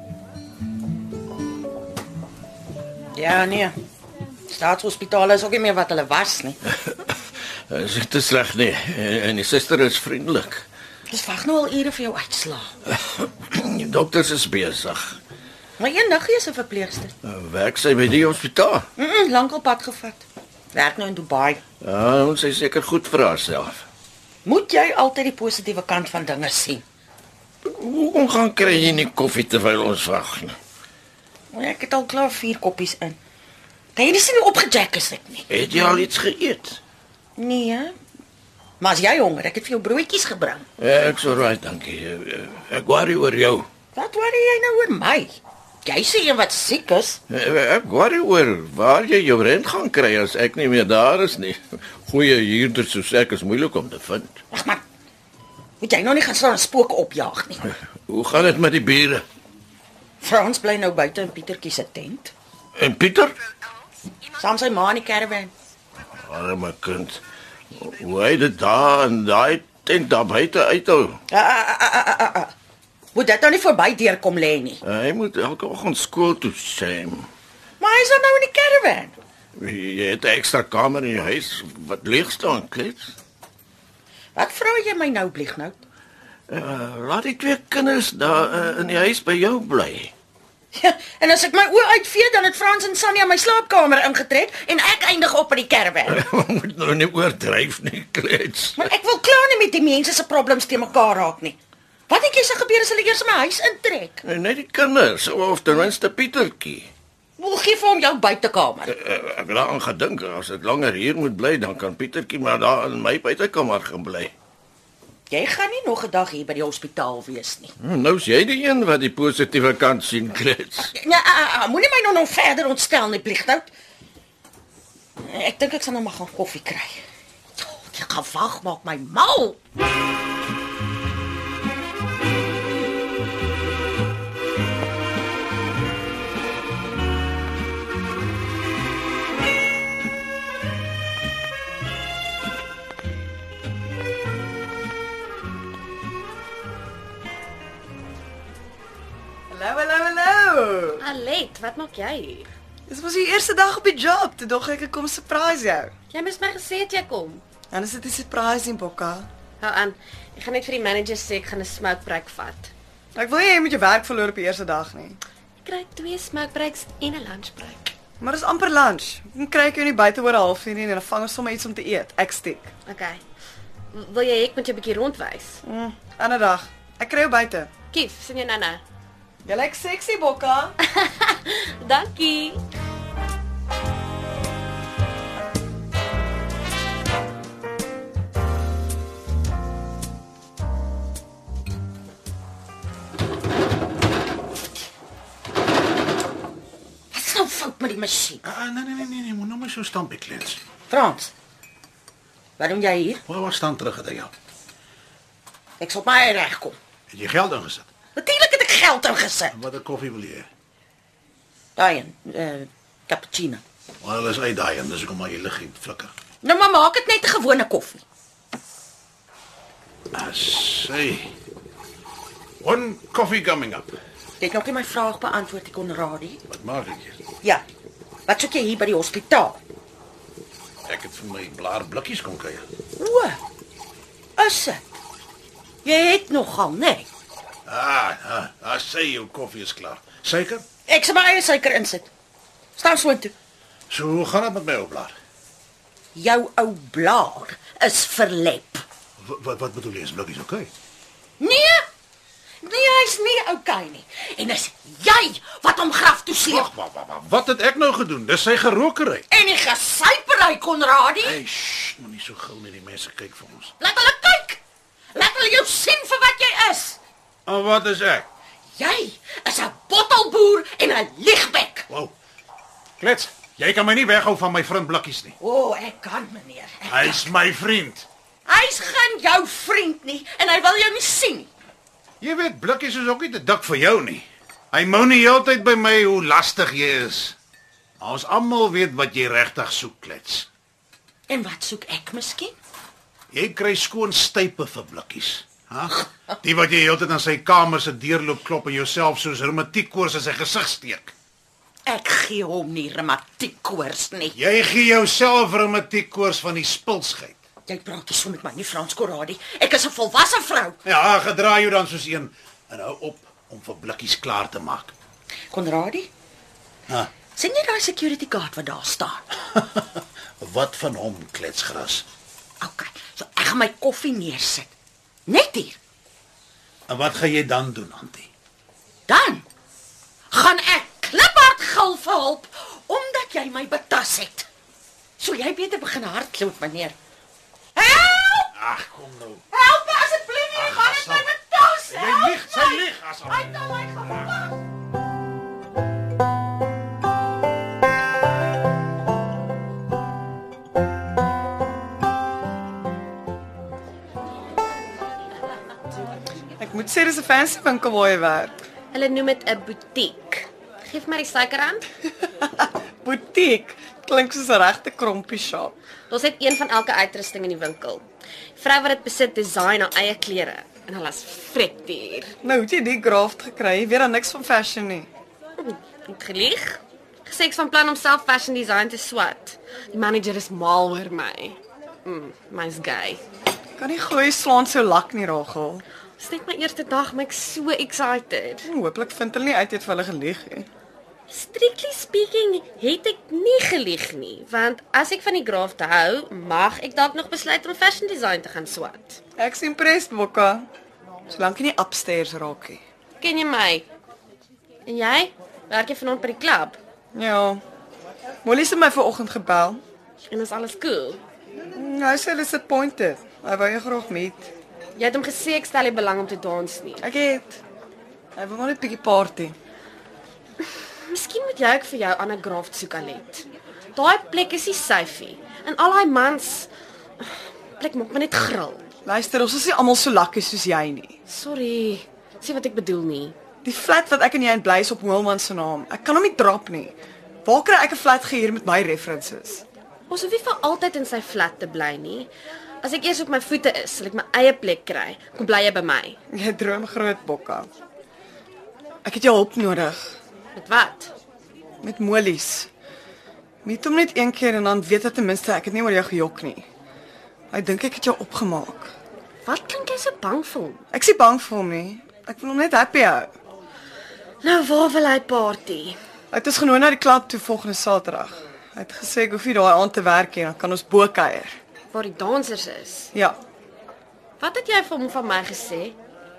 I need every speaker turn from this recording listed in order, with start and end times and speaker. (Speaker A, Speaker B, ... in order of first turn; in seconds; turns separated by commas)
Speaker A: 3.1-3.8, Speaker A: 4.5-6.6, Speaker B: 7.7-10.7, Speaker A: 11.1-12.7, Speaker B: 12.9-15.2, Speaker A: 15.8-17.1, Speaker B: 17.2-18.9, Speaker A: 19.0-21.6, Speaker B: 21.8-23.9, Speaker A: 24.4-26.8, Speaker B: 27.7-30.6, Speaker A: 31.5-33.2, Speaker A: 33.9-35.5, Speaker B: 35.5-36.8, Speaker A: 37.4-38.0, Speaker A: 38.8-40.7, Speaker B: 40.8-43.7, Speaker A: 43.9-47.2, Speaker B: 47.3-54.4, Speaker A: 54.5-54.8, Speaker A: 55.8-57.6, Speaker B: 58.1-59.2, Speaker A: 60.2-62.3, Speaker B: 62.8-63.3, Speaker A: 64.3-65.5, Speaker B: 66.2-67.2, Speaker B: 67.7-71.2, Speaker A: 71.3-72.5, Speaker A: 73.1-74.8, Speaker B: 74.8-77.3, Speaker A: 77.8-79.2, Speaker B: 79.6-83.1, Speaker A: 84.3-85.8, Speaker B: 86.5-90.1, Speaker A: 90.7-96.2, Speaker B: 96.1-98.9, Speaker A: 98.8-104.2, Speaker B: 104.2-106.9, Speaker A: 107.4-108.9, Speaker B: 108.9-114.3, Speaker A: 115.3-117.8, Speaker B: 117.8-120.9, Speaker A: 120.8-123.7, Speaker A: 125.2-127.0, Speaker A: 127.6-129.6, Speaker C: 149.5-151.0, Speaker D: 151.1-152.5, Speaker C: 152.9-155.9, Speaker D: 156.1-157.4, Speaker C: 157.7-159.3, Speaker D: 159.6-162.7, Speaker C: 163.2-165.2, Speaker D: 165.6-167.9, Speaker C: 168.2-172.7, Speaker D: 172.9-173.2, Speaker D: 173.9-175.6, Speaker C: 175.6-177.7, Speaker D: 177.9-178.8, Speaker C: 179.5-180.8, Speaker D: 180.9-182.6, Speaker A: 197.1-198.4, Speaker E: 198.4-200.6, Speaker A: 200.9-201.3, Speaker A: 202.6-203.2, Speaker E: 203.3-204.3, Speaker A: 205.8-206.8, Speaker E: 207.1-207.9, Speaker A: 208.2-209.6, Speaker E: 209.5-210.5, Speaker A: 211.8-213.6, Speaker E: 214.0-216.1, Speaker A: 216.4-218.0, Speaker E: 220.1-221.3, Speaker E: 222.6-224.0, Speaker A: 224.4-226.4, Speaker E: 226.5-227.2, Speaker A: 228.3-229.6, Speaker E: 230.9-232.7, Speaker A: 233.0-233.4, Speaker A: 234.4-234.9, Speaker A: 235.8-237.1, Speaker E: 237.7-240.7, Speaker A: 240.9-242.1, Speaker A: 242.8-243.3, Speaker E: 243.9-245.2, Speaker A: 246.2-248.8, Speaker E: 249.2-250.7, Speaker A: 251.4-251.9, Speaker A: 252.6-256.7, Speaker E: 256.5-259.3, Speaker A: 259.3-261.4, Speaker E: 261.2-263.7, Speaker A: 263.8-264.6, Speaker A: 265.1-267.0, Speaker E: 267.5-268.3, Speaker A: 268.8-271.9, Speaker E: 273.0-275.4, Speaker A: 275.4-277.3, Speaker E: 276.9-278.1, Speaker A: 278.5-281.5, Speaker E: 282.2-287.4, Speaker E: 288.0-290.5, Speaker A: 291.3-292.6, Speaker E: 293.3-301.1, Speaker A: 301.9-304.4, Speaker E: 304.3-307.4, Speaker A: 307.7-310.8, Speaker E: 310.9-314.9, Speaker A: 315.5-316.1, Speaker A: 317.4-319.3, Speaker E: 319.7-322.1, Speaker A: 322.6-324.7, Speaker A: 325.3-325.8, Speaker E: 326.9-328.3, Speaker A: 329.1-329.5, Speaker A: 330.3-334.5, Speaker A: 335.2-337.0, Speaker A: 337.8-338.5, Speaker E: 338.6-339.4, Speaker A: 339.5-344.5, Speaker E: 340.5-341.3, Speaker E: 341.9-343.5, Speaker C: 356.6-358.6, Speaker D: 358.9-361.9, Speaker C: 362.4-365.8, Speaker D: 366.1-368.0, Speaker D: 368.6-372.3, Speaker C: 372.4-375.1, Speaker D: 375.6-383.2, Speaker C: 383.8-385.8, Speaker D: 386.2-388.6, Speaker C: 388.6-390.7, Speaker D: 391.3-399.2, Speaker C: 399.4-400.7, Speaker C: 401.3-402.8, Speaker D: 403.2-403.9, Speaker D: 404.9-406.8, Speaker C: 407.1-407.6, Speaker C: 408.4-409.8, Speaker D: 410.3-411.2, Speaker C: 411.8-414.5, Speaker D: 415.0-417.0, Speaker C: 417.0-417.6, Speaker C: 418.4-419.6, Speaker D: 421.1-426.7, Speaker D: 427.2-428.9, Speaker C: 429.1-431.2, Speaker D: 431.3-433.4, Speaker C: 433.6-439.6, Speaker D: 440.1-442.3, Speaker D: 442.8-446.1, Speaker C: 446.3-447.7, Speaker C: 449.1-450.1, Speaker D: 450.6-451.1, Speaker C: 451.8-452.7, Speaker C: 453.6-456.7, Speaker C: 457.5-458.9, Speaker D: 459.4-460.8, Speaker C: 460.9-463.3, Speaker D: 464.4-466.0, Speaker C: 466.3-471.6, Speaker D: 471.9-473.1, Speaker D: 474.4-476.0